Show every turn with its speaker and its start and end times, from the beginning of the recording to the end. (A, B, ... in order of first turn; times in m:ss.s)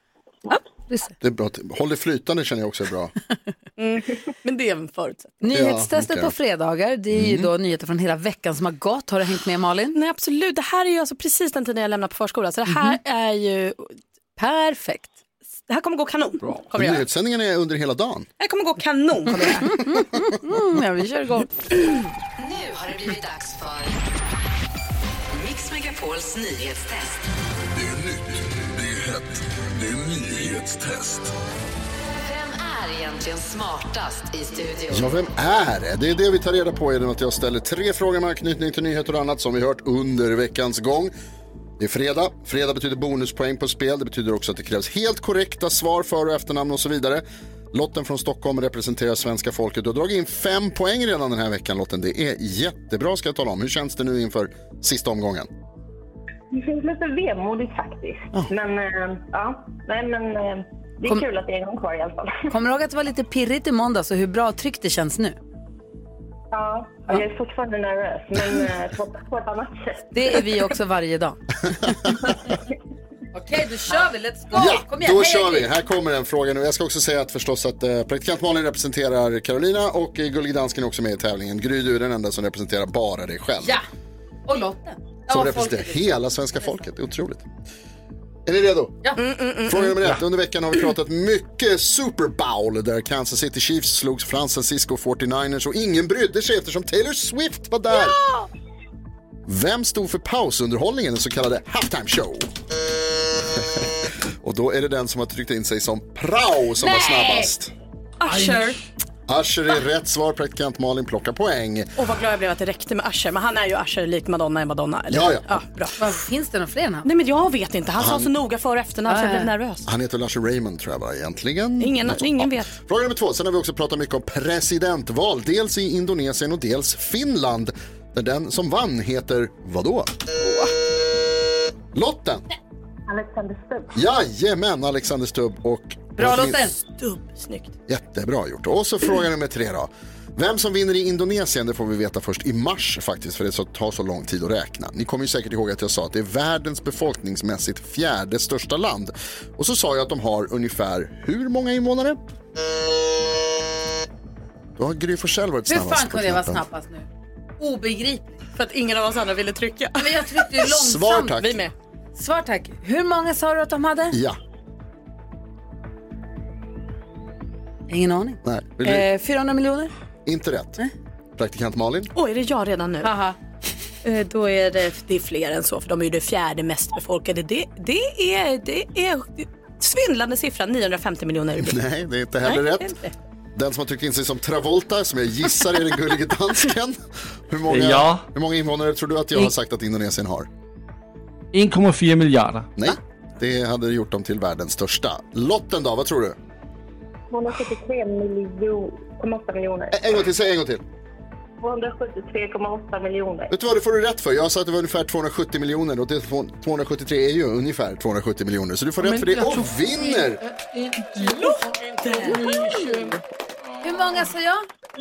0:00.9-0:01.1 A
0:01.2-0:03.1 B
0:03.8-0:05.4 C
0:05.4-0:10.0 A
0:05.5-0:06.3 B
0:07.1-0:07.5 B
0:09.9-0:14.0 C
0:14.4-0:15.2 A
0:15.7-0:17.0 C
0:16.7-0:18.3 B
0:18.4-0:19.9 C
0:19.6-0:21.5 A
0:22.4-0:24.0 D
0:25.3-0:27.2 D
0:27.7-0:31.3 E
0:32.2-0:35.1 D
0:34.9-0:41.1 B
0:41.8-0:55.5 B
0:56.5-1:02.4 F
1:02.5-1:05.4 A
1:06.5-1:10.1 F
1:10.1-1:12.1 A
1:13.3-1:15.7 A
1:14.5-1:23.8 B
1:24.5-1:26.2 A
1:25.3-1:27.5 B
1:28.4-1:29.0 B
1:29.2-1:30.0 C
1:29.6-1:38.2 B
1:39.4-1:42.5 B
1:43.5-1:47.7 B
1:46.8-1:47.5 A
1:48.2-1:48.7 C
1:48.3-1:48.6 G
1:49.3-1:51.9 B
1:52.0-1:56.2 C
1:55.1-1:55.6 B
1:56.0-1:57.1 A
1:57.0-1:59.9 C
1:58.0-1:58.3 B
1:59.1-1:59.5 A
1:59.8-2:10.1 B
2:01.8-2:02.7 C
2:11.9-2:12.4 B
2:13.1-2:14.0 F
2:13.9-2:16.7 B
2:16.2-2:16.7 A
2:16.9-2:17.7 C
2:17.9-2:32.2 B
2:34.8-2:36.6 B
2:35.7-2:38.4 A
2:38.6-2:40.4 C
2:40.0-2:41.4 A
2:40.6-2:41.6 B
2:41.3-2:41.7 C
2:42.1-2:44.2 A
2:44.1-2:44.4 B
2:47.9-2:49.9 A
2:48.4-2:49.0 B
2:50.2-2:50.8 B
2:51.4-2:52.1 B
2:52.1-2:53.1 C
2:53.0-2:53.4 A
2:54.0-3:01.8 C
3:01.6-3:02.9 B
3:02.4-3:03.1 C
3:03.5-3:10.5 B
3:07.7-3:08.2 G
3:11.5-3:12.7 G
3:12.8-3:16.4 B
3:17.3-3:20.1 F
3:19.9-3:20.8 B
3:21.6-3:23.5 F
3:23.5-3:30.4 B
3:31.1-3:33.1 C
3:33.8-3:34.6 A